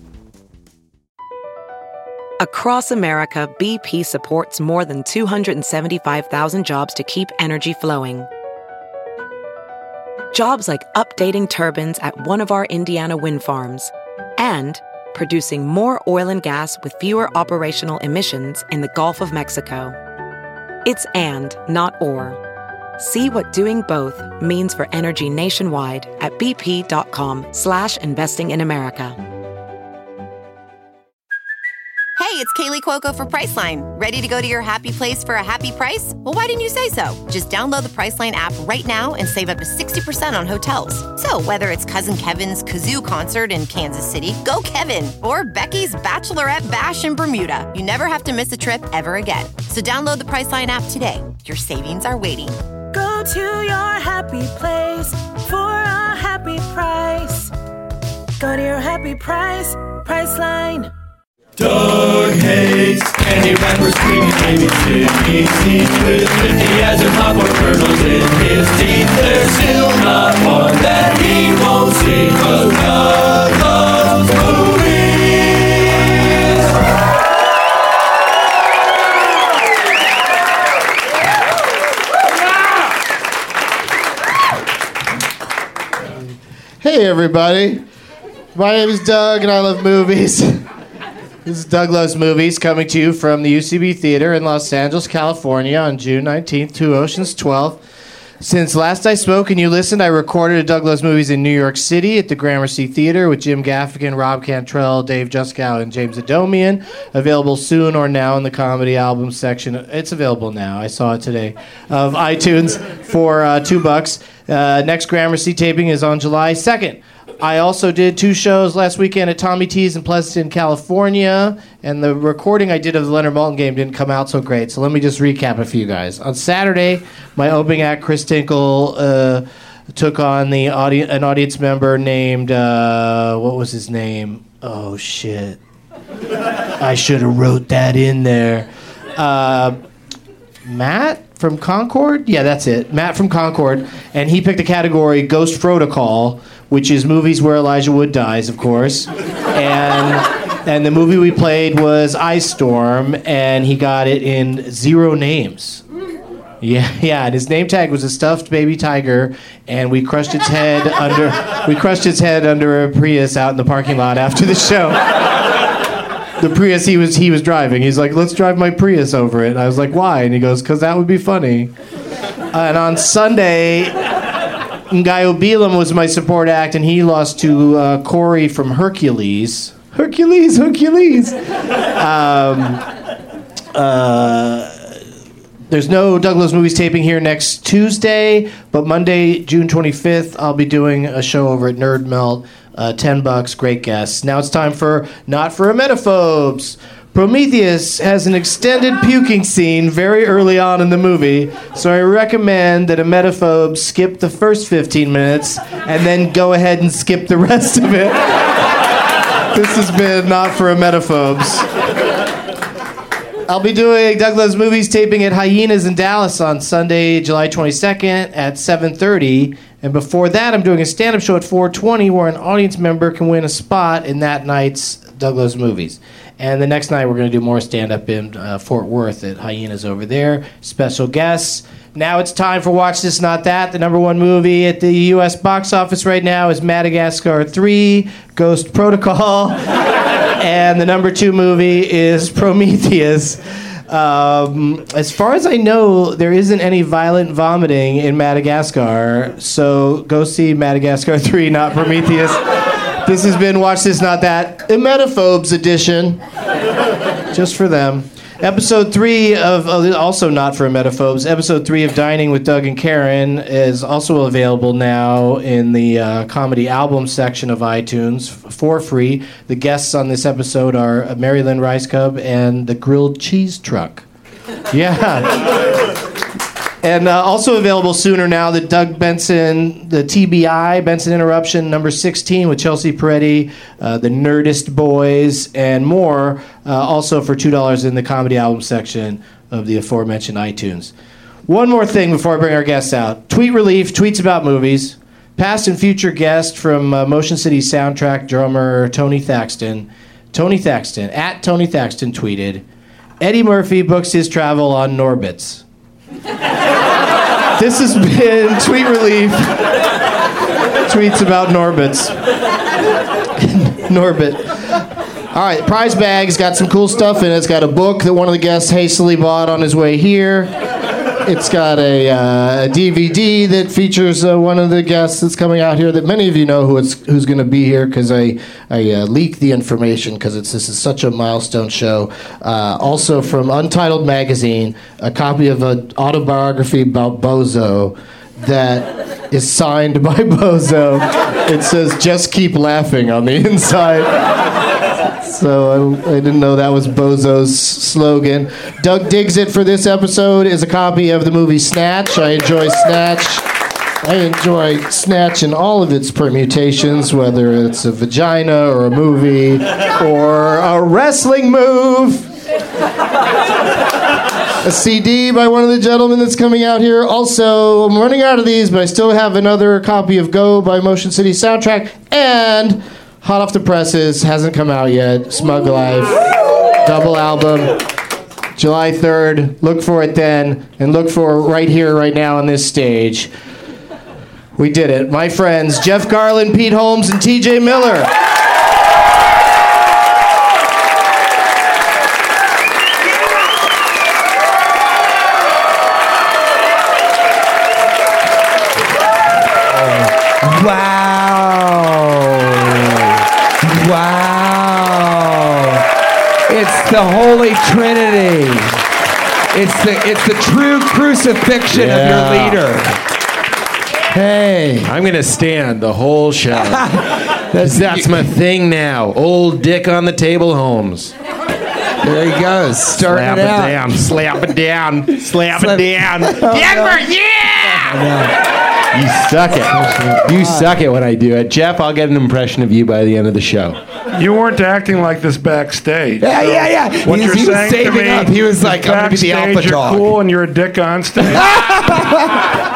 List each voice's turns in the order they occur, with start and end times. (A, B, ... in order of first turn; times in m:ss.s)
0:02.4-0:08.3 A
0:10.3-0:20.0 A
0:20.8-0:22.4 A
0:23.0-0:29.2 A
0:32.2-0:52.6 B
0:52.9-0:57.5 C
0:58.4-1:00.9 C
1:01.6-1:16.1 D
1:26.8-1:27.8 E
1:28.5-1:30.6 E
1:31.4-1:37.8 E
1:38.4-2:15.6 E
2:16.8-2:19.8 E
2:20.6-2:35.8 E
2:36.6-2:45.2 E
2:46.4-2:51.7 E
2:52.5-2:54.0 E
2:54.9-3:01.4 E
3:01.9-3:02.8 E
3:03.7-3:04.9 E
3:05.7-3:28.4 E
3:29.5-3:31.6 E
3:33.5-3:59.6 E
4:00.4-4:12.4 E
4:13.0-4:16.2 E
4:17.3-4:34.0 E
4:34.7-4:35.7 E
4:36.8-4:50.9 E
4:51.5-5:02.6 E
5:03.2-5:05.6 E
5:07.6-5:09.8 E
5:10.8-5:12.2 E
5:13.4-5:14.8 E
5:15.3-5:20.5 E
5:21.2-5:44.3 E
5:45.2-5:53.4 E
5:54.0-6:02.3 E
6:04.6-6:16.2 E
6:16.8-6:17.8 E
6:18.6-6:23.3 E
6:24.6-6:28.1 E
6:40.4-6:42.9 F
6:43.6-6:45.8 F
6:46.5-6:48.8 F
6:49.5-6:52.9 F
6:51.7-6:52.6 G
6:54.1-6:54.9 F
6:54.8-6:56.8 G
6:56.5-6:58.3 F
6:57.6-7:01.1 G
7:02.0-7:04.1 F
7:02.9-7:07.9 G
7:05.4-7:08.3 F
7:08.9-7:13.8 G
7:10.0-7:10.4 F
7:14.1-7:21.6 H
7:16.2-7:20.1 F
7:21.2-7:22.4 F